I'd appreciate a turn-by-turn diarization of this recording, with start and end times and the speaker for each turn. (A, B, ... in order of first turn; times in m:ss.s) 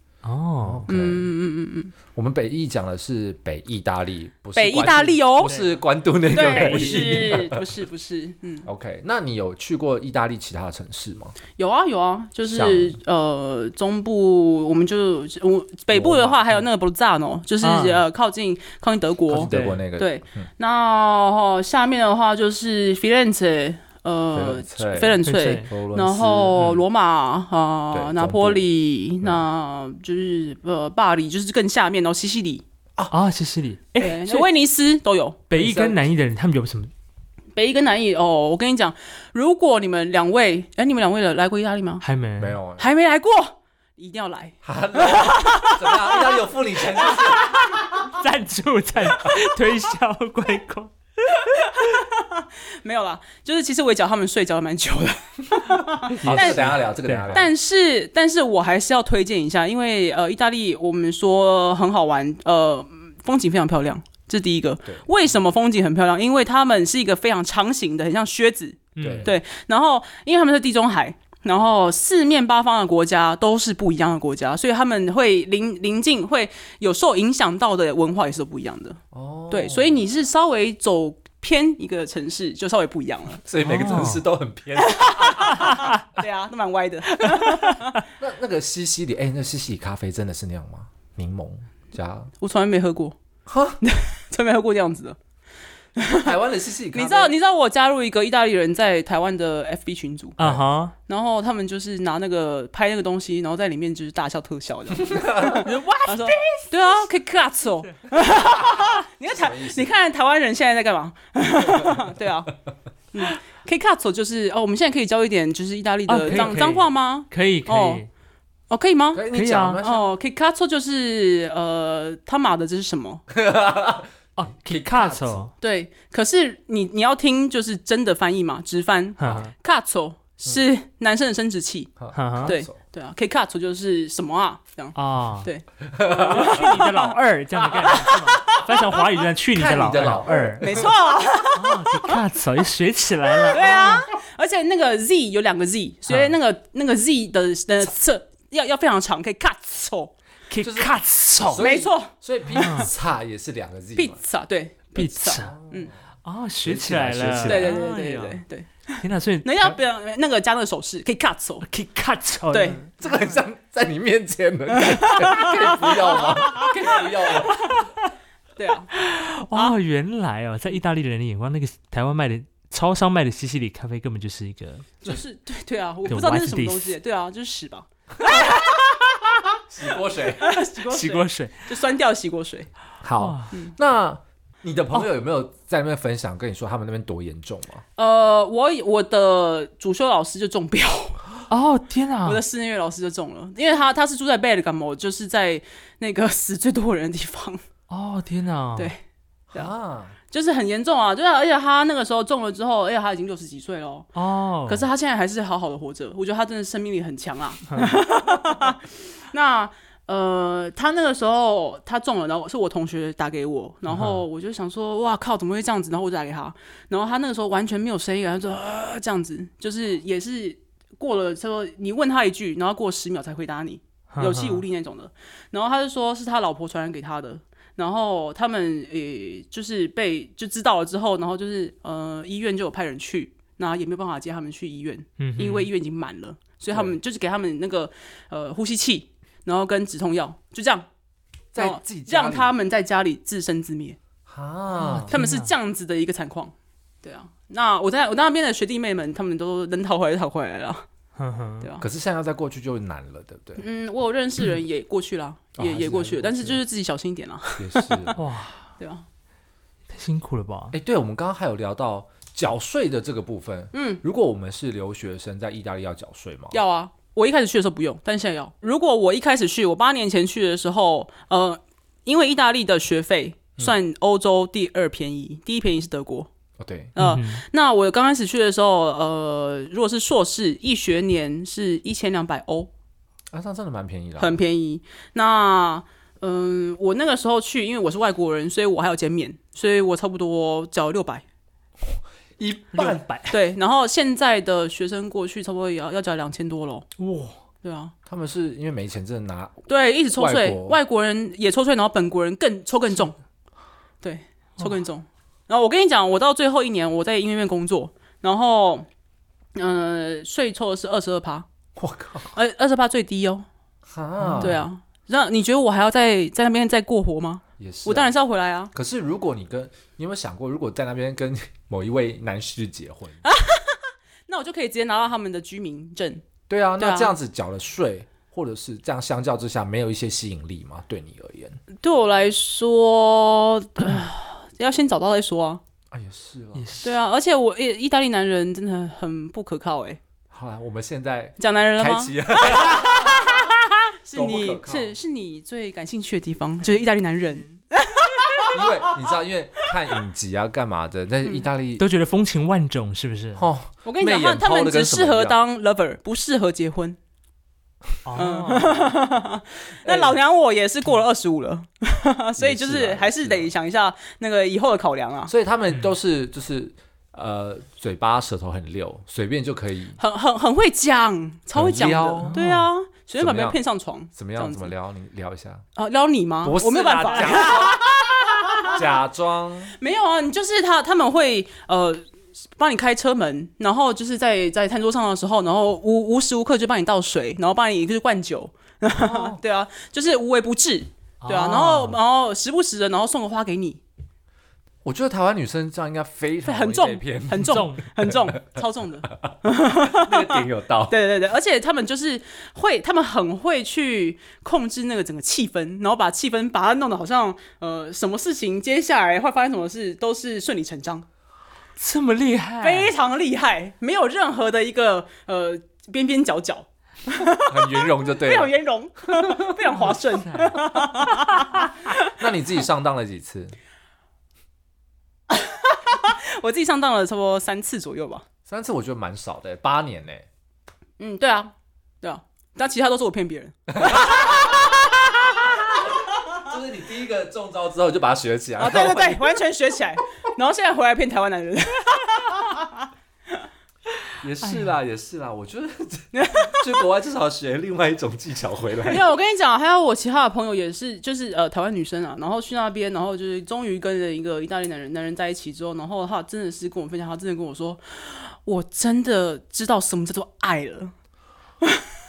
0:00.2-0:00.8 A
0:00.6-0:01.3 B
0:00.9-0:01.9 C
0:02.1-0:07.6 B
0:04.5-0:05.5 C
0:05.4-0:05.8 A
0:06.3-0:08.7 C
0:06.3-0:07.3 A
0:08.6-0:11.4 B
0:11.6-0:32.6 C
0:12.5-0:13.0 B
0:15.9-0:16.4 B
0:17.6-0:18.0 A
0:19.3-0:20.5 B
0:19.5-0:19.8 A
0:24.3-0:26.8 B
0:25.2-0:25.7 A
0:27.9-0:28.6 B
0:33.1-0:34.5 A
0:34.0-0:35.4 C
0:35.5-0:36.9 A
0:35.5-0:36.0 B
0:37.6-0:42.0 C
0:42.0-0:42.6 A
0:42.4-0:42.8 B
0:42.8-0:46.4 C
0:44.6-0:47.8 B
0:48.0-0:50.9 A
0:51.5-0:56.7 C
0:56.1-0:57.5 B
0:56.2-0:57.4 A
0:57.3-1:23.4 C
1:09.0-1:09.3 A
1:09.0-1:09.3 B
1:19.1-1:20.0 B
1:23.4-1:25.7 B
1:23.6-1:24.2 A
1:24.8-1:28.0 C
1:28.2-1:32.3 B
1:32.4-1:33.2 C
1:33.4-1:33.8 B
1:33.8-1:35.2 C
1:36.0-1:36.3 C
1:36.1-1:37.3 B
1:36.9-1:40.4 C
1:40.4-1:40.9 A
1:40.4-1:40.6 B
1:41.1-1:52.5 C
1:45.0-1:45.6 B
1:45.5-1:46.7 A
1:48.6-1:49.9 B
1:51.6-1:52.1 B
1:53.1-1:58.0 C
1:56.1-1:58.1 A
1:58.7-1:59.2 C
1:59.1-2:00.1 B
1:59.3-1:59.8 A
1:59.8-2:03.2 C
2:03.3-2:04.1 B
2:04.4-2:05.5 A
2:04.6-2:05.5 B
2:05.6-2:17.1 C
2:09.2-2:09.5 A
2:12.0-2:12.8 B
2:12.1-2:12.5 A
2:14.9-2:15.5 A
2:15.9-2:16.6 B
2:16.1-2:20.8 A
2:17.8-2:18.8 C
2:19.5-2:20.9 B
2:20.6-2:22.2 C
2:21.5-2:24.0 A
2:23.5-2:30.1 C
2:26.1-2:26.4 A
2:30.5-2:31.6 A
2:30.6-2:34.2 B
2:31.6-2:32.8 C
2:32.5-2:32.9 A
2:34.0-2:35.9 C
2:35.0-2:35.5 A
2:35.4-2:35.9 B
2:36.2-2:38.4 A
2:36.6-2:37.8 B
2:37.4-2:41.7 C
2:39.0-2:39.6 A
2:41.7-2:42.9 A
2:42.5-2:42.8 C
2:43.0-2:47.8 B
2:45.0-2:47.0 C
2:48.6-2:48.9 C
2:49.0-2:54.9 A
2:55.0-2:59.6 C
2:56.1-2:56.9 A
2:59.7-3:00.5 B
3:00.2-3:02.7 C
3:00.7-3:01.6 A
3:03.0-3:07.8 B
3:03.2-3:03.5 A
3:08.0-3:11.2 C
3:11.5-3:12.4 A
3:12.2-3:17.6 C
3:17.9-3:18.9 A
3:18.8-3:19.0 C
3:19.5-3:20.1 B
3:20.3-3:24.1 C
3:24.1-3:24.9 A
3:24.7-4:00.9 C
3:27.7-3:28.0 A
3:33.9-3:34.2 A
3:44.1-3:44.6 A
3:55.2-3:55.7 A
4:01.5-4:02.5 B
4:01.6-4:04.0 C
4:04.3-4:05.2 B
4:04.8-4:05.5 A
4:05.1-4:10.8 C
4:11.2-4:11.7 A
4:11.8-4:13.6 B
4:13.6-4:18.2 C
4:15.6-4:16.6 B
4:17.6-4:18.2 B
4:18.2-4:18.6 A
4:18.8-4:19.0 C
4:19.9-4:20.8 A
4:20.7-4:26.6 B
4:23.7-4:24.0 C
4:26.5-4:36.3 C
4:36.6-4:36.9 B
4:36.9-4:42.7 C
4:37.0-4:37.4 A
4:43.3-4:44.4 B
4:44.2-4:51.2 C
4:51.8-4:53.0 B
4:52.7-4:53.3 A
4:53.3-4:56.9 C
4:57.0-4:57.3 A
4:57.6-4:57.9 C
4:58.1-5:00.8 B
4:59.7-5:03.2 C
5:04.0-5:08.8 C
5:09.6-5:11.5 C
5:11.8-5:12.3 B
5:12.3-5:13.4 C
5:13.9-5:14.6 B
5:14.2-5:14.6 A
5:14.4-5:18.7 C
5:17.6-5:18.1 B
5:18.7-5:23.2 B
5:23.2-5:26.2 C
5:26.5-5:31.6 B
5:26.8-5:27.1 C
5:31.8-5:35.6 C
5:35.9-5:36.7 B
5:36.6-5:36.9 A
5:36.8-5:40.0 C
5:40.3-5:43.2 B
5:41.4-5:48.9 C
5:44.1-5:44.9 B
5:48.5-5:51.8 B
5:51.8-5:53.5 A
5:53.3-5:55.4 B
5:53.8-5:57.0 C
5:58.0-5:58.8 A
5:58.2-6:05.3 C
5:59.8-6:00.2 B
6:02.4-6:03.5 B
6:05.3-6:10.0 B
6:10.0-6:14.7 C
6:11.5-6:12.4 B
6:12.2-6:12.7 A
6:13.2-6:13.6 B
6:14.1-6:15.6 B
6:15.8-6:18.8 C
6:16.4-6:17.9 B
6:18.6-6:19.7 B
6:19.8-6:22.0 C
6:22.6-6:33.8 C
6:29.0-6:29.3 A
6:31.2-6:32.0 A
6:34.8-6:38.6 B
6:36.4-6:51.0 C
6:37.3-6:37.8 A
6:39.8-6:40.9 B
6:51.8-6:52.9 A
6:52.6-7:02.1 C
6:57.3-6:58.5 B
6:59.2-6:59.5 B
6:59.7-7:01.4 A
7:02.0-7:03.6 B
7:05.3-7:08.2 C
7:08.5-7:10.2 B
7:11.0-7:15.8 C
7:13.7-7:19.3 B
7:18.6-7:22.9 C
7:24.2-7:29.0 B
7:24.4-7:24.8 A
7:26.1-7:26.7 C
7:28.8-7:40.9 C